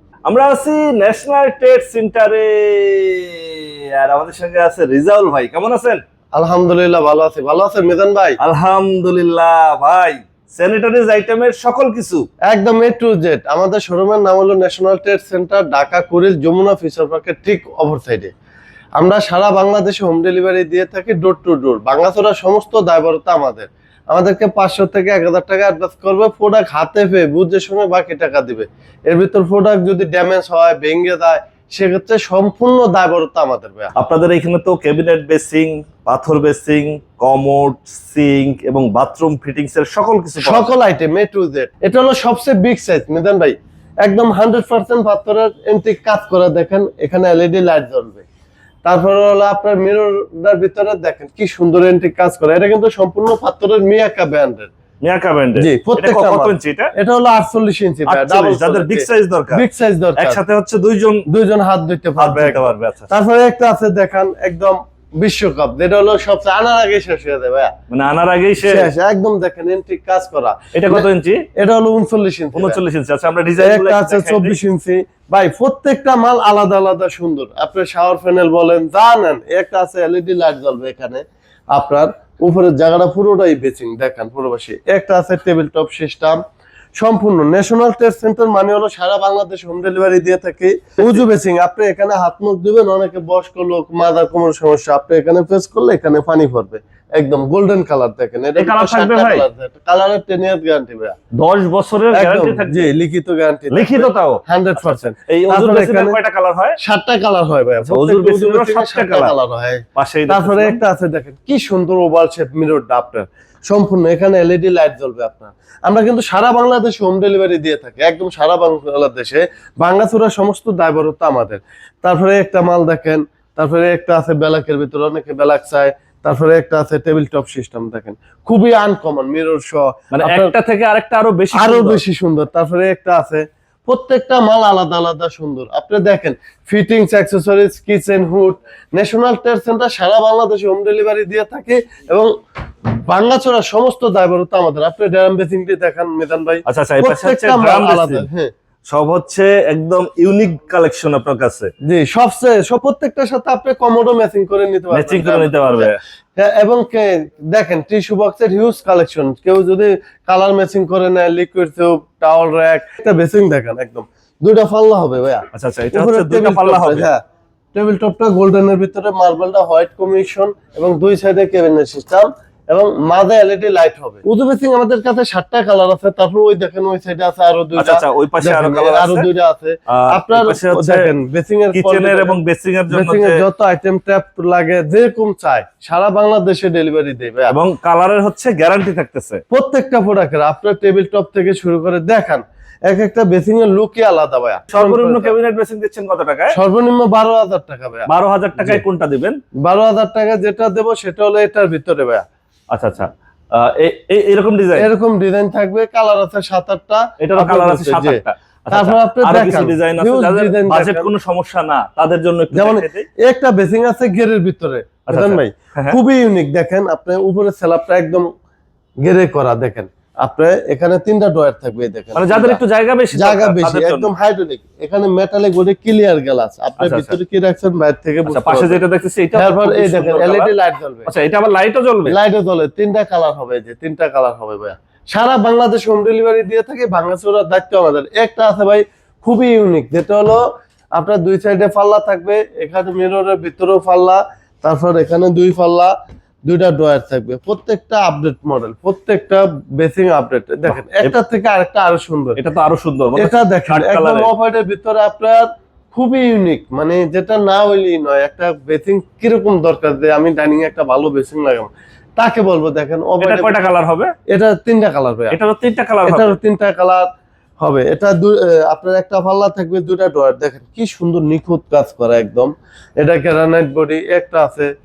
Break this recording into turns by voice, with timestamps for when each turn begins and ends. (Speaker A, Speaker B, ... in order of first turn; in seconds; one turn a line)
Speaker A: 0.3-6.0
Speaker B: 6.3-8.4
Speaker A: 8.4-12.2
Speaker B: 12.5-18.3
Speaker B: 19.0-33.9
Speaker A: 34.0-40.7
Speaker B: 40.4-48.2
Speaker B: 48.9-54.7
Speaker A: 55.0-56.9
Speaker B: 55.6-60.4
Speaker A: 58.1-59.6
Speaker A: 60.2-61.2
Speaker B: 61.3-67.7
Speaker A: 62.2-63.1
Speaker A: 67.9-68.9
Speaker B: 68.6-72.8
Speaker A: 70.7-71.5
Speaker A: 72.5-74.6
Speaker B: 73.6-86.4
Speaker B: 87.0-101.2
Speaker A: 91.0-91.2
Speaker A: 98.6-99.5
Speaker A: 101.3-102.9
Speaker B: 102.1-106.2
Speaker A: 103.7-106.8
Speaker B: 106.8-130.5
Speaker A: 107.9-109.3
Speaker A: 110.0-110.8
Speaker A: 130.1-132.0
Speaker B: 131.5-142.3
Speaker B: 143.1-148.5
Speaker A: 146.7-148.3
Speaker A: 148.9-151.7
Speaker B: 151.8-167.2
Speaker A: 154.9-156.0
Speaker A: 165.5-167.1
Speaker B: 167.8-182.4
Speaker A: 177.8-179.3
Speaker A: 179.9-181.1
Speaker A: 181.7-183.4
Speaker B: 182.9-187.6
Speaker A: 187.5-189.4
Speaker B: 189.5-195.3
Speaker A: 194.7-196.6
Speaker B: 196.5-198.8
Speaker A: 198.1-199.4
Speaker B: 199.6-202.2
Speaker A: 202.7-204.9
Speaker B: 204.8-211.1
Speaker A: 207.2-213.1
Speaker B: 212.5-218.3
Speaker A: 215.1-216.0
Speaker B: 219.0-222.6
Speaker A: 222.2-224.1
Speaker B: 223.1-228.8
Speaker A: 226.8-227.2
Speaker A: 228.3-230.5
Speaker B: 229.3-231.1
Speaker A: 231.1-232.2
Speaker B: 232.1-245.9
Speaker B: 246.5-252.4
Speaker A: 250.7-251.1
Speaker A: 252.4-254.3
Speaker B: 253.2-263.7
Speaker A: 263.2-264.1
Speaker B: 264.3-265.4
Speaker A: 265.3-266.4
Speaker B: 266.1-267.1
Speaker B: 267.6-274.7